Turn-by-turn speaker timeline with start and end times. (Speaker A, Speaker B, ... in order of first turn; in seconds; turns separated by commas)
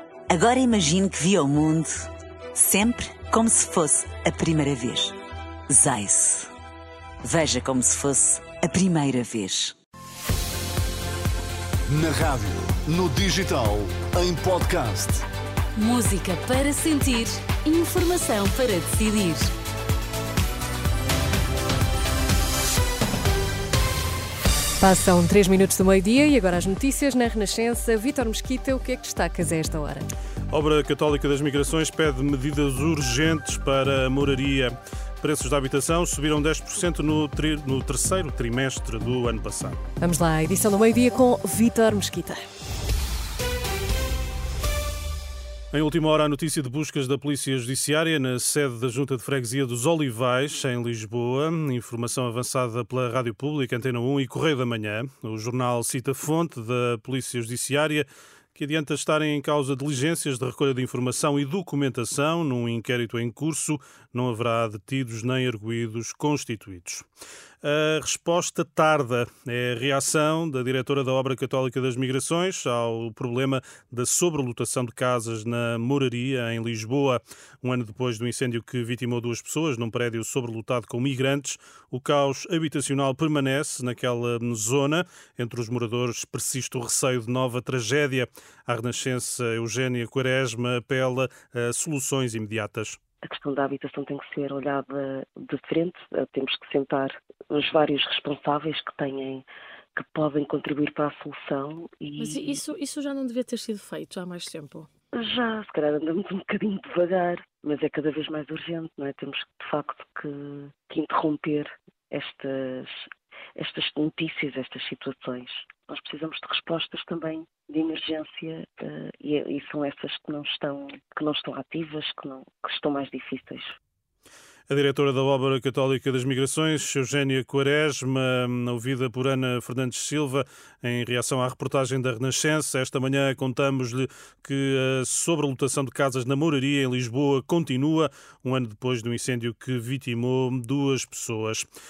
Speaker A: 0.3-5.2, Speaker A: 5.7-6.5, Speaker A: 7.2-9.8, Speaker B: 11.9-15.2, Speaker C: 15.8-19.5, Speaker D: 24.8-30.1, Speaker E: 30.5-39.8, Speaker D: 40.0-42.4, Speaker E: 45.7-67.0, Speaker E: 67.6-93.0, Speaker F: 93.3-99.4, Speaker F: 100.0-102.5, Speaker G: 102.2-104.9, Speaker F: 105.2-112.8, Speaker F: 113.6-123.7, Speaker E: 124.7-141.7